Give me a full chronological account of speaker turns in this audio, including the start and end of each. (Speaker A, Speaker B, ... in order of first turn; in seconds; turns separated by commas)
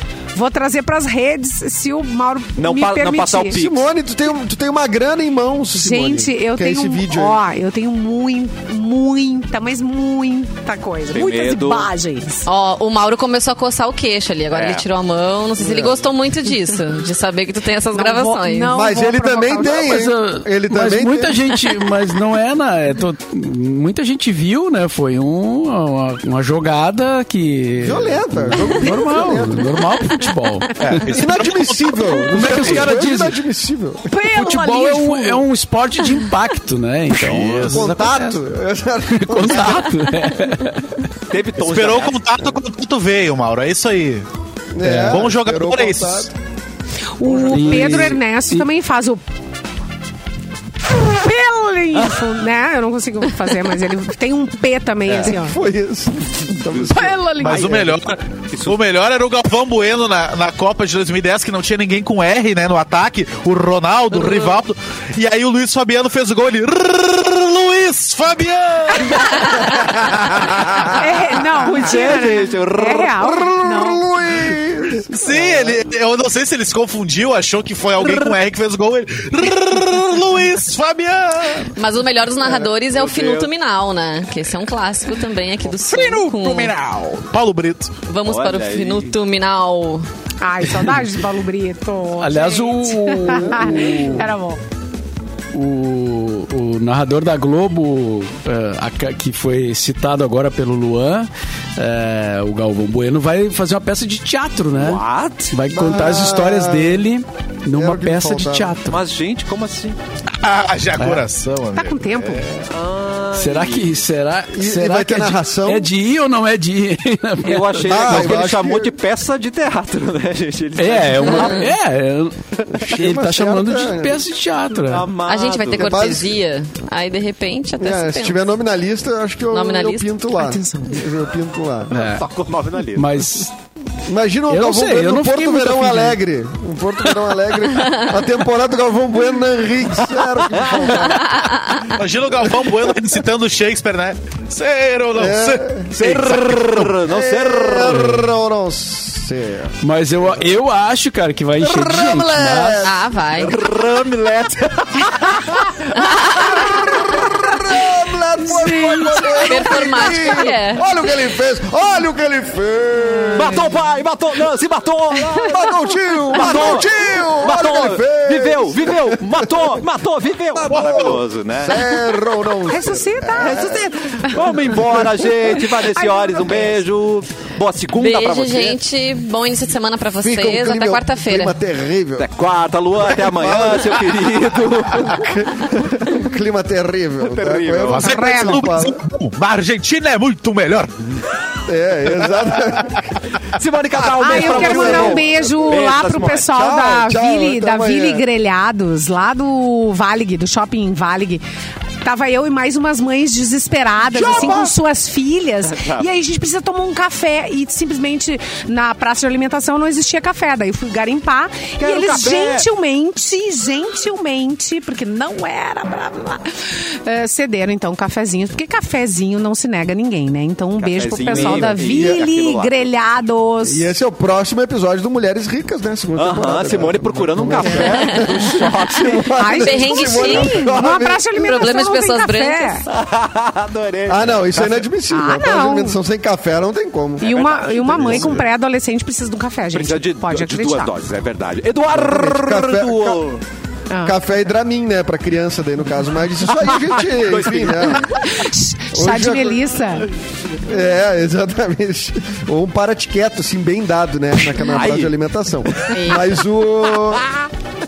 Speaker A: 0.3-3.6, Speaker B: 2.6-3.9, Speaker C: 3.5-7.4, Speaker A: 5.8-12.5, Speaker B: 11.1-11.9, Speaker D: 12.5-18.7, Speaker B: 14.5-14.8, Speaker C: 15.6-16.0, Speaker A: 17.9-20.0, Speaker C: 18.7-21.4, Speaker E: 19.8-31.1, Speaker C: 27.8-29.8, Speaker F: 30.8-32.9, Speaker C: 31.0-34.2, Speaker E: 32.3-33.4, Speaker A: 34.1-35.5, Speaker E: 34.2-38.4, Speaker F: 37.1-37.9, Speaker C: 37.7-40.1, Speaker E: 39.1-41.0, Speaker B: 41.3-42.5, Speaker F: 41.6-44.2, Speaker C: 44.7-46.3, Speaker E: 44.8-45.2, Speaker F: 45.0-46.3, Speaker A: 47.2-49.2, Speaker E: 47.3-48.7, Speaker A: 50.9-55.6, Speaker F: 55.1-55.3, Speaker C: 55.1-58.0, Speaker B: 56.5-57.1, Speaker A: 56.9-57.7, Speaker F: 57.4-71.0, Speaker B: 58.5-58.8, Speaker B: 70.1-71.0, Speaker A: 71.0-74.0, Speaker B: 71.6-73.2, Speaker C: 73.2-75.1, Speaker F: 75.1-81.7, Speaker B: 75.3-75.8, Speaker D: 81.8-86.7, Speaker B: 82.4-83.5, Speaker F: 85.7-87.9, Speaker D: 88.1-90.1, Speaker B: 88.2-89.1, Speaker A: 90.4-94.6, Speaker E: 92.2-94.3, Speaker E: 95.5-109.0, Speaker B: 104.7-105.5, Speaker C: 105.7-107.0, Speaker C: 107.7-108.8, Speaker B: 108.9-110.0, Speaker F: 110.4-112.4, Speaker E: 111.0-111.2, Speaker A: 111.7-112.7, Speaker B: 112.7-113.9, Speaker E: 113.4-118.5, Speaker C: 114.5-115.9, Speaker B: 117.4-121.7, Speaker C: 117.8-119.0, Speaker E: 120.8-125.1, Speaker C: 122.8-124.2, Speaker B: 124.9-126.1, Speaker D: 125.3-128.4, Speaker C: 125.8-126.4, Speaker C: 127.8-132.0, Speaker D: 129.5-130.1, Speaker A: 130.3-131.1, Speaker B: 131.9-133.4, Speaker E: 131.9-132.2, Speaker E: 132.9-133.5, Speaker C: 134.1-141.3, Speaker E: 134.5-136.2, Speaker D: 137.8-138.1, Speaker B: 140.1-141.2, Speaker D: 141.0-142.0, Speaker F: 141.8-145.7, Speaker C: 145.2-149.8, Speaker B: 145.9-148.2, Speaker E: 149.8-152.9, Speaker C: 151.6-153.0, Speaker D: 152.8-153.6, Speaker B: 153.4-155.7, Speaker D: 155.9-156.8, Speaker C: 156.0-163.7, Speaker A: 158.4-160.4, Speaker D: 159.4-160.9, Speaker A: 163.2-163.6, Speaker B: 163.3-165.7, Speaker C: 165.3-169.8, Speaker B: 166.3-171.9, Speaker C: 170.5-173.9, Speaker F: 170.7-171.2, Speaker A: 172.7-176.8, Speaker B: 173.4-178.8, Speaker C: 174.4-175.3, Speaker D: 178.0-181.6, Speaker C: 180.2-182.3, Speaker B: 182.2-185.3, Speaker C: 183.1-184.3, Speaker C: 185.0-189.0, Speaker B: 187.2-188.1, Speaker F: 187.9-190.9, Speaker A: 188.0-188.7, Speaker C: 191.7-193.1, Speaker B: 193.6-196.5, Speaker A: 194.2-201.4, Speaker C: 194.2-195.8, Speaker C: 196.5-198.2, Speaker A: 202.0-223.9, Speaker B: 204.1-204.7, Speaker C: 204.1-204.5, Speaker B: 205.6-206.1, Speaker B: 211.8-212.7, Speaker B: 220.8-222.9, Speaker C: 221.3-222.3, Speaker C: 223.6-231.3, Speaker B: 226.2-229.5, Speaker A: 229.4-232.8, Speaker D: 229.5-230.7, Speaker D: 231.3-232.8, Speaker B: 232.9-234.8, Speaker C: 234.1-237.3, Speaker A: 235.1-236.0, Speaker B: 237.2-238.5, Speaker A: 237.2-240.9, Speaker C: 237.9-238.4, Speaker B: 239.7-243.4, Speaker C: 241.9-243.2, Speaker A: 243.9-244.2, Speaker C: 244.0-248.2, Speaker B: 246.6-248.2, Speaker A: 248.0-250.1, Speaker C: 248.9-249.6, Speaker C: 250.6-257.2, Speaker B: 254.6-256.2, Speaker D: 255.9-256.3, Speaker B: 256.9-257.4